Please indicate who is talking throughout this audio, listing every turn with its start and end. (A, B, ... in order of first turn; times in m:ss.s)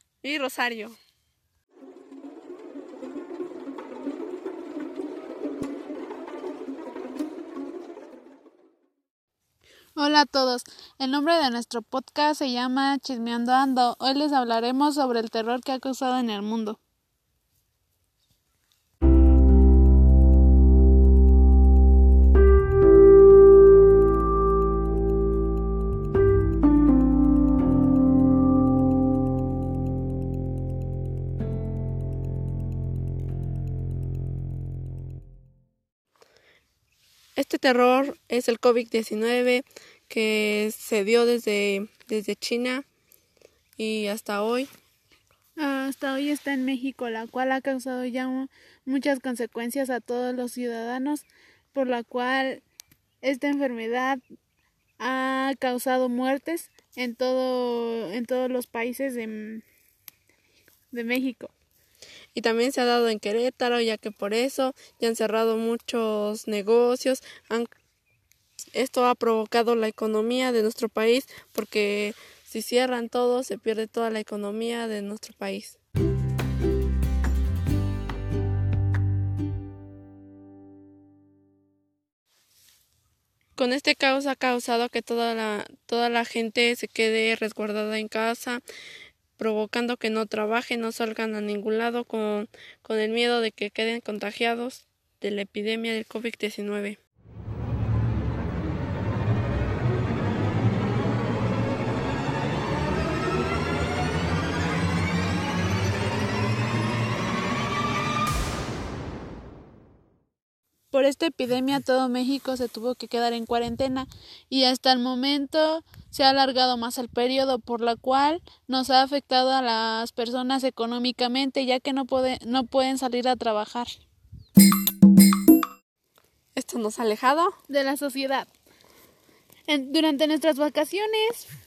0:00.2-0:01.0 A
0:10.0-0:16.8 B
0:37.4-0:42.9 A
0:43.8-0:44.7 A
0:45.6-0:52.6 B
0:53.2-0:54.2 B
0:55.0-0:59.6 B
1:00.9-1:01.5 B
1:02.3-1:07.7 A
1:08.8-1:15.8 A
1:23.6-1:28.6 A
1:29.4-1:37.0 A
1:50.9-2:03.9 B
2:06.6-2:07.6 A
2:07.7-2:08.5 B
2:09.7-2:11.5 B